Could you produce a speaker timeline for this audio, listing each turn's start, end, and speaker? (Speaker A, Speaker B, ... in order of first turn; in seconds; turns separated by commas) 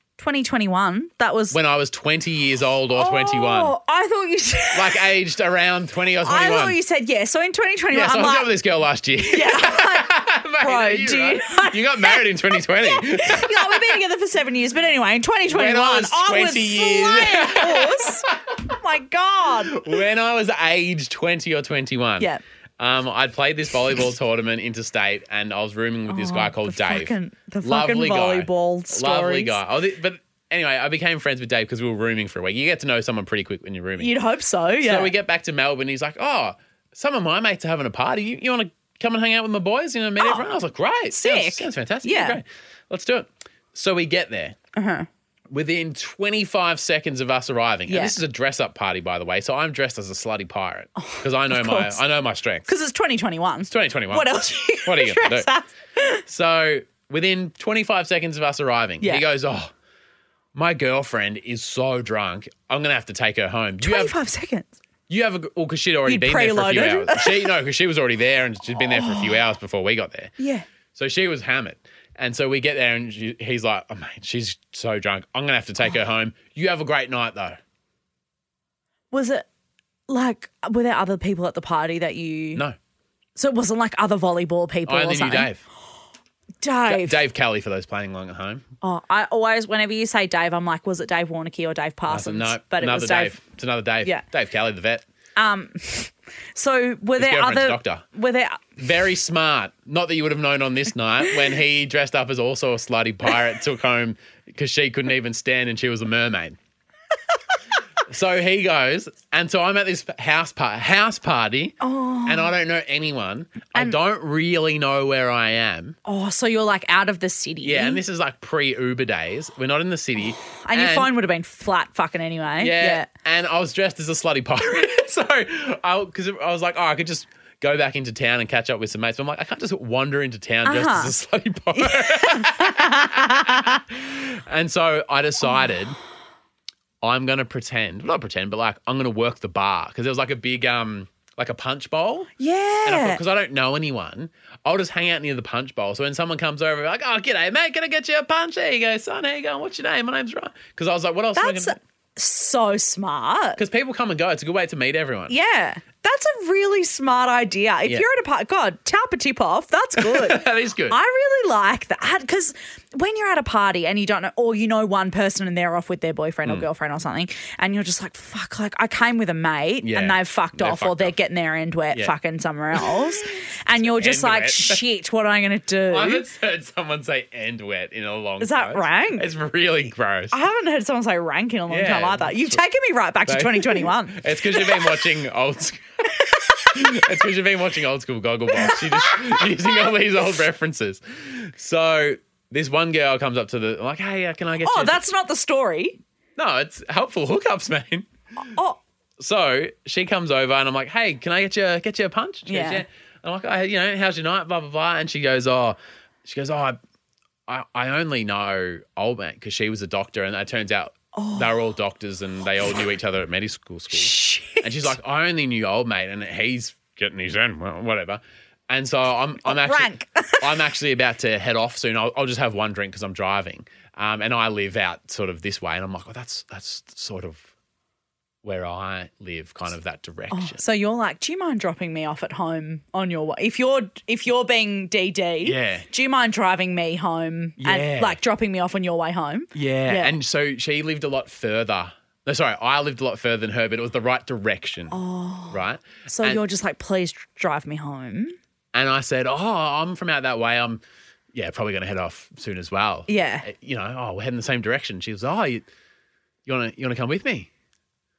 Speaker A: 0.2-1.6, Speaker B: 1.5-3.7, Speaker A: 2.9-5.1, Speaker B: 4.7-6.8, Speaker A: 6.2-8.5, Speaker B: 7.9-14.0, Speaker A: 9.2-20.0, Speaker B: 15.5-18.6, Speaker B: 19.6-34.1, Speaker A: 26.1-29.6, Speaker A: 34.0-35.1, Speaker B: 34.8-44.5, Speaker A: 40.2-40.5, Speaker A: 41.1-42.4, Speaker A: 44.8-45.1, Speaker B: 45.5-52.7, Speaker A: 47.9-48.2, Speaker A: 51.0-52.0, Speaker A: 52.7-56.2, Speaker B: 53.7-55.5, Speaker B: 56.3-59.7, Speaker A: 59.0-59.3, Speaker B: 60.5-64.1, Speaker A: 63.8-64.7, Speaker B: 65.1-70.3, Speaker A: 66.0-67.5, Speaker A: 68.8-69.4, Speaker A: 70.4-70.6, Speaker B: 70.9-77.6, Speaker A: 79.1-79.5, Speaker A: 80.1-82.6, Speaker A: 83.3-85.5, Speaker B: 84.8-85.6, Speaker A: 86.6-87.2, Speaker B: 86.8-88.7, Speaker A: 88.8-93.4, Speaker B: 92.1-95.0, Speaker A: 95.3-98.8, Speaker B: 97.2-98.0, Speaker B: 98.8-106.6, Speaker B: 108.1-116.0, Speaker A: 111.8-112.5, Speaker A: 116.0-118.0, Speaker B: 117.6-121.1, Speaker A: 120.6-123.1, Speaker B: 122.6-135.9, Speaker A: 130.6-131.1, Speaker A: 131.7-133.8, Speaker B: 137.0-142.3, Speaker A: 142.4-143.2, Speaker B: 142.8-151.8, Speaker A: 151.3-153.6, Speaker B: 153.6-155.3, Speaker A: 155.3-176.3, Speaker B: 160.0-160.9, Speaker B: 169.8-171.2, Speaker B: 172.7-173.2, Speaker B: 173.8-174.8, Speaker B: 175.9-180.3, Speaker A: 178.4-179.2, Speaker A: 180.3-185.0, Speaker B: 181.7-182.6, Speaker B: 183.3-186.1, Speaker A: 186.2-186.9, Speaker B: 186.6-195.0, Speaker A: 188.5-189.9, Speaker A: 194.6-196.0, Speaker B: 196.4-198.1, Speaker A: 198.4-198.8, Speaker B: 199.2-206.8, Speaker A: 202.5-202.8, Speaker B: 207.5-227.5, Speaker A: 211.1-211.5, Speaker A: 213.9-214.9, Speaker A: 219.4-220.5, Speaker B: 228.4-230.6, Speaker A: 230.3-240.2, Speaker B: 235.4-235.8, Speaker B: 237.6-238.2, Speaker B: 239.5-244.9, Speaker A: 244.9-248.3, Speaker B: 245.5-246.4, Speaker B: 248.7-250.8, Speaker B: 251.3-255.7, Speaker A: 253.1-253.5, Speaker B: 256.4-257.5